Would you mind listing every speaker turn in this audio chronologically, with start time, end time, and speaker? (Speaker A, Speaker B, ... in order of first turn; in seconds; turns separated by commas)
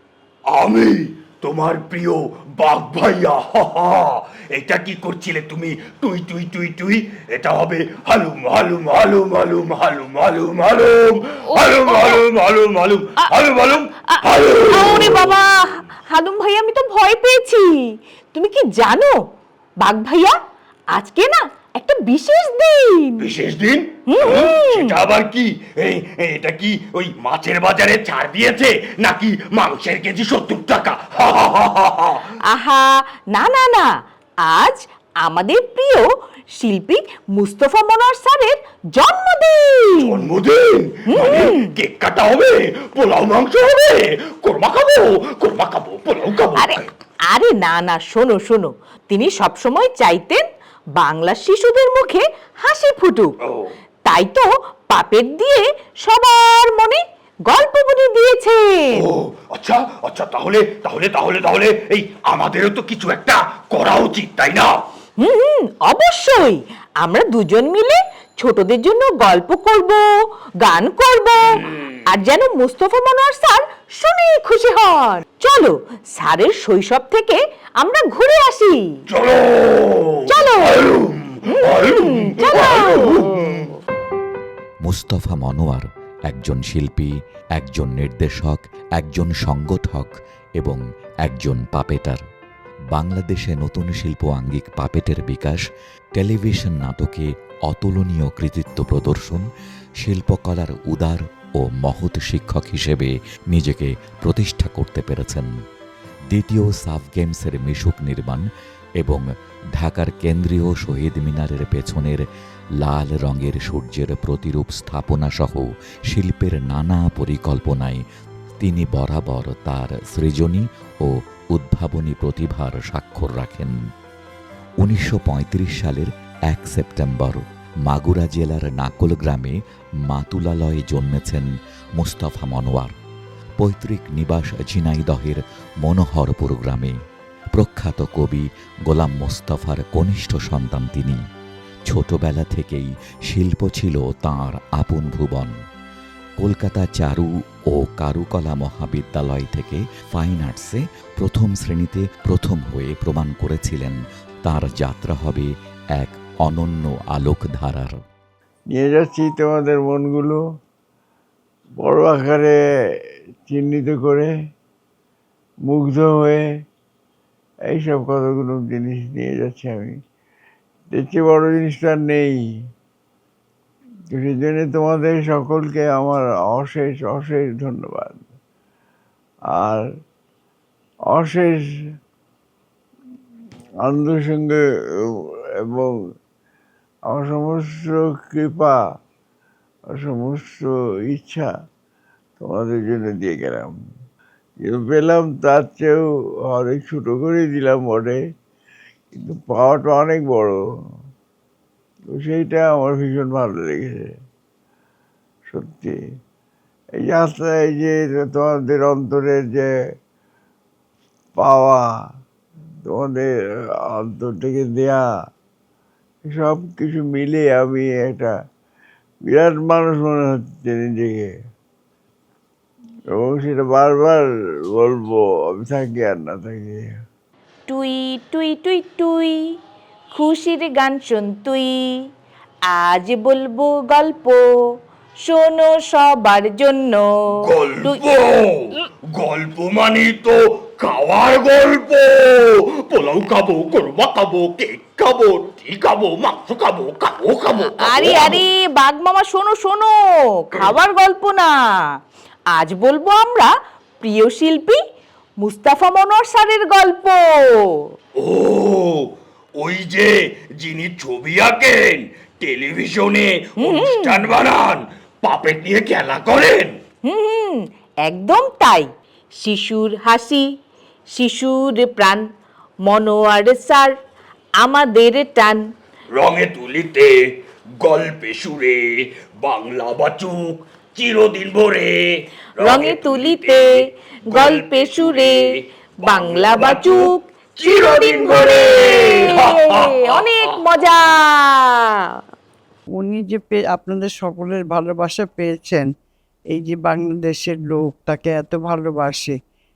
Speaker A: 0.5-15.4, Speaker B: 11.5-12.2, Speaker B: 13.2-19.2, Speaker B: 19.8-20.4, Speaker B: 20.9-23.3, Speaker A: 23.2-32.2, Speaker B: 24.1-25.0, Speaker B: 32.5-40.3, Speaker A: 40.0-46.9, Speaker B: 41.1-41.7, Speaker B: 46.6-50.5, Speaker B: 51.0-53.3, Speaker B: 54.1-59.0, Speaker A: 59.0-64.8, Speaker B: 65.2-70.1, Speaker B: 70.6-78.9, Speaker A: 79.1-83.7, Speaker B: 80.3-80.9, Speaker B: 81.5-83.6, Speaker C: 84.8-92.2, Speaker C: 92.9-95.6, Speaker C: 96.2-99.5, Speaker C: 100.0-105.5, Speaker C: 106.3-108.5, Speaker C: 109.8-112.2, Speaker C: 112.8-118.0, Speaker C: 118.6-123.8, Speaker C: 124.8-132.9, Speaker C: 133.6-137.0, Speaker C: 137.6-141.2, Speaker C: 141.9-145.6, Speaker C: 146.4-158.0, Speaker D: 158.7-160.4, Speaker D: 161.8-162.6, Speaker D: 163.5-164.3, Speaker D: 165.7-166.4, Speaker D: 167.7-169.9, Speaker D: 170.9-172.3, Speaker D: 174.1-178.2, Speaker D: 179.6-179.8, Speaker D: 181.1-181.6, Speaker D: 183.8-185.9, Speaker D: 187.1-188.8, Speaker D: 189.9-191.5, Speaker D: 192.4-193.7, Speaker D: 194.6-198.2, Speaker D: 199.2-200.6, Speaker D: 202.1-204.1, Speaker D: 205.5-206.0, Speaker D: 207.0-209.7, Speaker D: 211.4-211.8, Speaker D: 212.8-213.3, Speaker D: 213.8-215.0, Speaker D: 216.3-218.3, Speaker D: 219.3-221.3, Speaker D: 223.1-226.8, Speaker B: 227.7-229.6, Speaker B: 230.1-232.1, Speaker B: 232.7-234.5, Speaker B: 235.2-238.0, Speaker A: 237.4-248.4, Speaker B: 247.6-251.8, Speaker B: 252.5-254.8, Speaker B: 255.4-257.9, Speaker A: 258.2-266.8, Speaker B: 263.6-264.3, Speaker B: 267.1-270.6, Speaker B: 271.1-272.3, Speaker B: 272.9-273.9, Speaker B: 274.6-275.6, Speaker A: 276.1-277.1, Speaker A: 277.8-283.7, Speaker B: 282.6-283.7, Speaker A: 284.3-290.5, Speaker B: 284.3-285.5, Speaker B: 286.0-292.2, Speaker E: 292.9-295.9, Speaker E: 296.5-299.4